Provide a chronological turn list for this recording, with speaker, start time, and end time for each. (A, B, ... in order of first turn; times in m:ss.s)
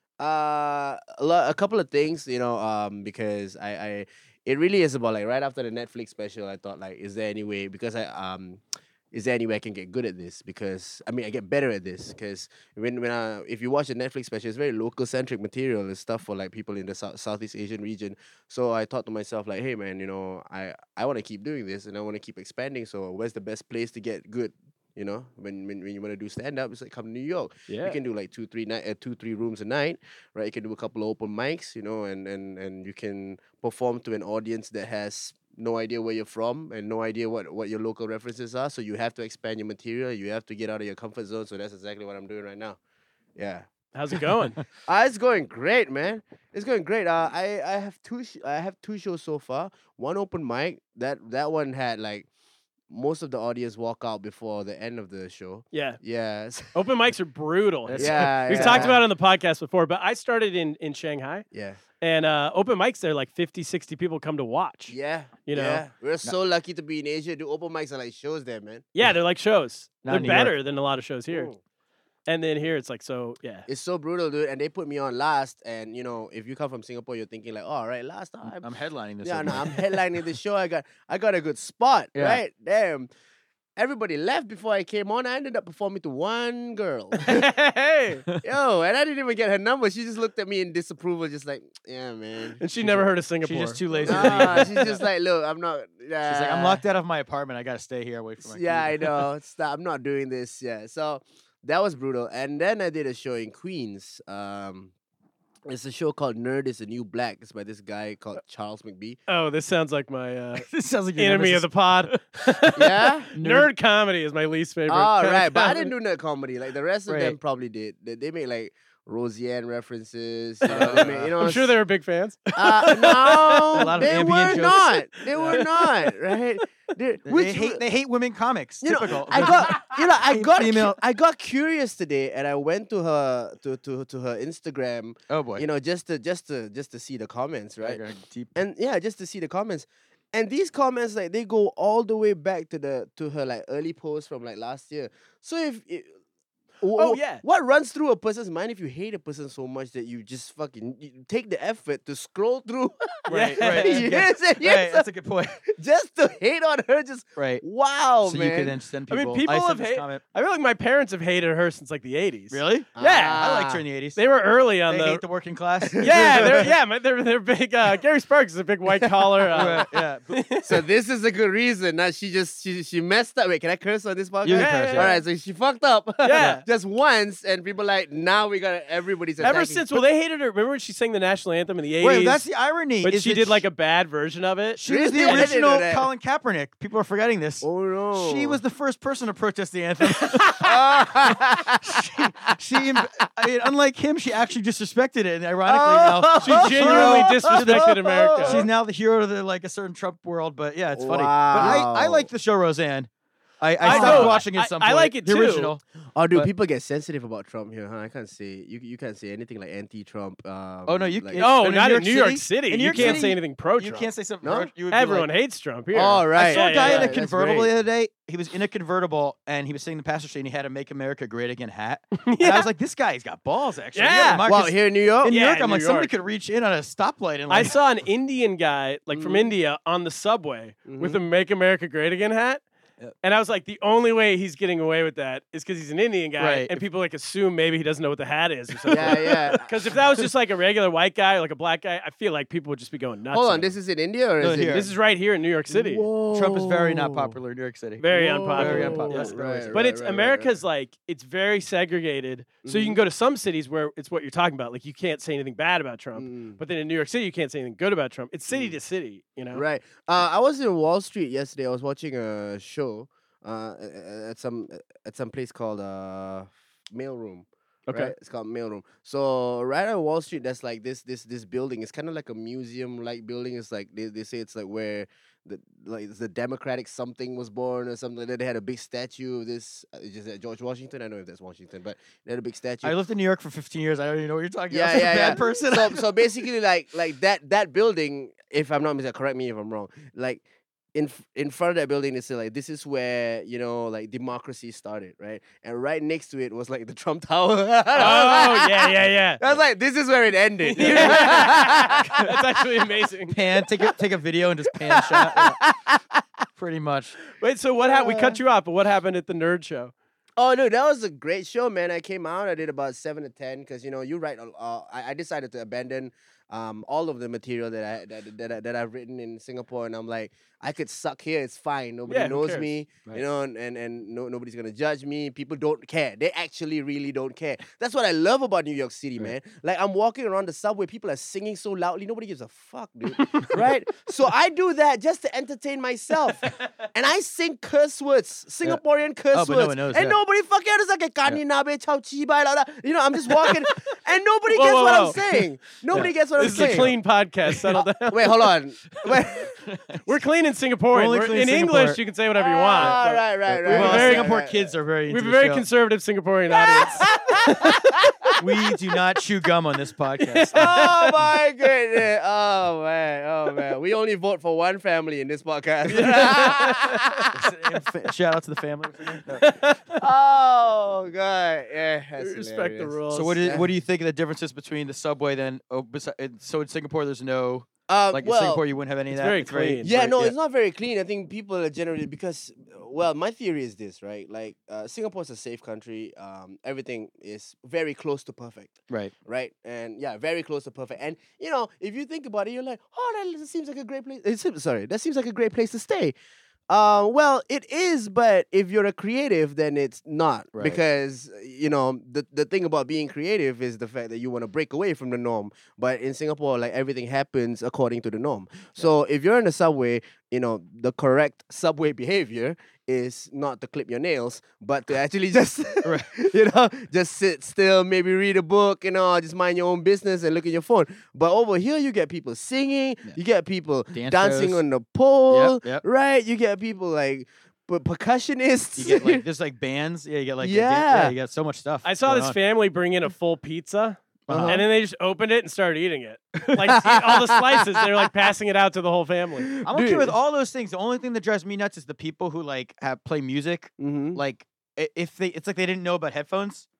0:00.2-0:42.8 A
0:27.7-0:28.0 B
0:43.4-0:43.7 A
0:43.9-0:44.6 B
0:44.8-0:52.3 A
0:52.9-0:56.7 A
0:55.7-0:56.0 B
0:56.7-1:01.4 B
0:57.9-0:59.0 C
0:57.9-0:59.0 A
1:01.5-1:01.8 A
1:02.0-1:04.9 B
1:04.9-1:08.8 A
1:05.4-1:05.8 B
1:08.9-1:11.5 B
1:10.0-1:10.5 C
1:11.3-1:11.6 A
1:12.3-1:13.7 B
1:13.7-1:18.7 A
1:18.4-1:20.0 C
1:19.2-1:23.1 A
1:22.1-1:22.4 C
1:23.8-1:27.4 A
1:27.2-1:28.2 B
1:28.4-1:32.6 A
1:32.6-1:35.0 B
1:32.8-1:35.0 C
1:34.0-1:36.8 A
1:36.2-1:39.3 C
1:38.4-1:44.9 A
1:45.7-1:49.2 A
1:49.3-1:55.9 B
1:50.6-1:52.8 C
1:52.8-1:53.3 A
1:53.3-1:53.7 C
1:54.9-2:01.7 A
1:57.1-1:57.4 C
2:00.6-2:01.4 C
2:00.6-2:04.1 B
2:02.6-2:07.8 A
2:02.6-2:05.6 C
2:05.4-2:05.8 B
2:07.2-2:11.0 C
2:08.8-2:18.0 A
2:09.3-2:09.8 B
2:15.3-2:15.6 C
2:17.8-2:18.5 C
2:18.5-2:26.1 A
2:26.8-2:35.1 A
2:26.9-2:27.4 B
2:33.3-2:34.1 B
2:33.3-2:35.6 C
2:35.7-2:38.8 A
2:37.4-2:37.6 C
2:38.2-2:40.2 C
2:39.1-2:43.4 B
2:42.5-2:44.2 C
2:43.0-2:43.8 A
2:44.2-2:45.2 B
2:44.9-2:46.6 C
2:45.9-2:46.7 A
2:46.0-2:50.8 B
2:49.2-2:49.9 A
2:49.5-2:50.4 C
2:50.6-2:59.8 A
2:54.4-2:55.2 C
2:54.5-2:55.2 B
2:56.2-2:56.6 B
2:56.4-2:56.6 C
2:59.4-3:02.4 B
3:02.0-3:03.6 C
3:03.0-3:05.5 B
3:04.7-3:23.1 C
3:04.8-3:06.0 A
3:07.6-3:08.6 A
3:10.1-3:13.2 A
3:15.6-3:18.7 A
3:16.4-3:18.7 B
3:20.9-3:22.3 A
3:21.6-3:21.9 B
3:23.6-3:26.5 C
3:23.8-3:25.7 B
3:23.8-3:24.4 A
3:26.1-3:31.4 A
3:30.8-3:35.3 C
3:31.4-3:34.1 B
3:32.9-3:33.3 A
3:34.4-3:34.7 A
3:34.9-3:37.2 B
3:35.9-3:37.7 A
3:36.3-3:47.8 C
3:42.2-3:42.7 B
3:43.9-3:44.5 B
3:44.4-3:45.3 A
3:45.2-3:46.1 B
3:47.5-3:52.6 B
3:49.1-3:49.5 A
3:50.9-3:51.2 A
3:53.2-4:03.7 B
3:56.4-3:56.8 C
3:58.8-3:59.6 C
3:58.9-3:59.8 A
4:03.3-4:04.9 A
4:04.4-4:04.9 C
4:04.7-4:06.0 B
4:05.7-4:07.3 A
4:06.3-4:09.8 C
4:08.0-4:19.6 B
4:08.1-4:10.5 A
4:12.6-4:13.0 A
4:16.1-4:16.6 A
4:18.5-4:18.8 A
4:19.5-4:42.9 A
4:27.9-4:28.1 B
4:42.8-4:46.4 C
4:44.7-4:50.4 A
4:50.9-5:02.4 A
4:57.9-4:59.4 B
5:00.6-5:03.4 B
5:00.8-5:01.4 C
5:03.3-5:05.6 C
5:04.9-5:06.2 A
5:06.6-5:07.1 C
5:07.4-5:09.9 B
5:07.8-5:08.4 A
5:10.4-5:47.0 A
5:22.1-5:22.7 B
5:39.3-5:40.2 C
5:44.5-5:45.2 B
5:45.9-5:46.9 C
5:46.4-5:48.4 B
5:47.9-5:49.5 A
5:49.3-5:50.0 C
5:50.0-5:54.3 B
5:50.9-5:52.0 C
5:52.4-5:54.7 A
5:52.8-5:55.6 C
5:55.1-5:57.7 B
5:56.6-5:58.3 A
5:58.4-6:00.7 C
6:00.2-6:01.1 B
6:00.5-6:07.3 A
6:05.9-6:07.0 B
6:07.3-6:09.5 C
6:09.4-6:09.8 B
6:10.0-6:13.7 A
6:12.2-6:13.5 B
6:13.1-6:20.3 C
6:17.9-6:18.6 A
6:19.1-6:20.0 B
6:19.8-6:36.1 A
6:36.7-7:09.2 A
6:40.5-6:40.8 C
6:55.8-6:56.1 C
7:03.9-7:04.6 C
7:05.3-7:05.8 C
7:08.8-7:12.4 C
7:10.4-7:11.1 A
7:11.8-7:19.5 B
7:14.3-7:14.6 C
7:14.3-7:14.6 A
7:16.4-7:17.5 A
7:19.5-7:20.1 A
7:19.6-7:26.7 C
7:23.8-7:24.2 A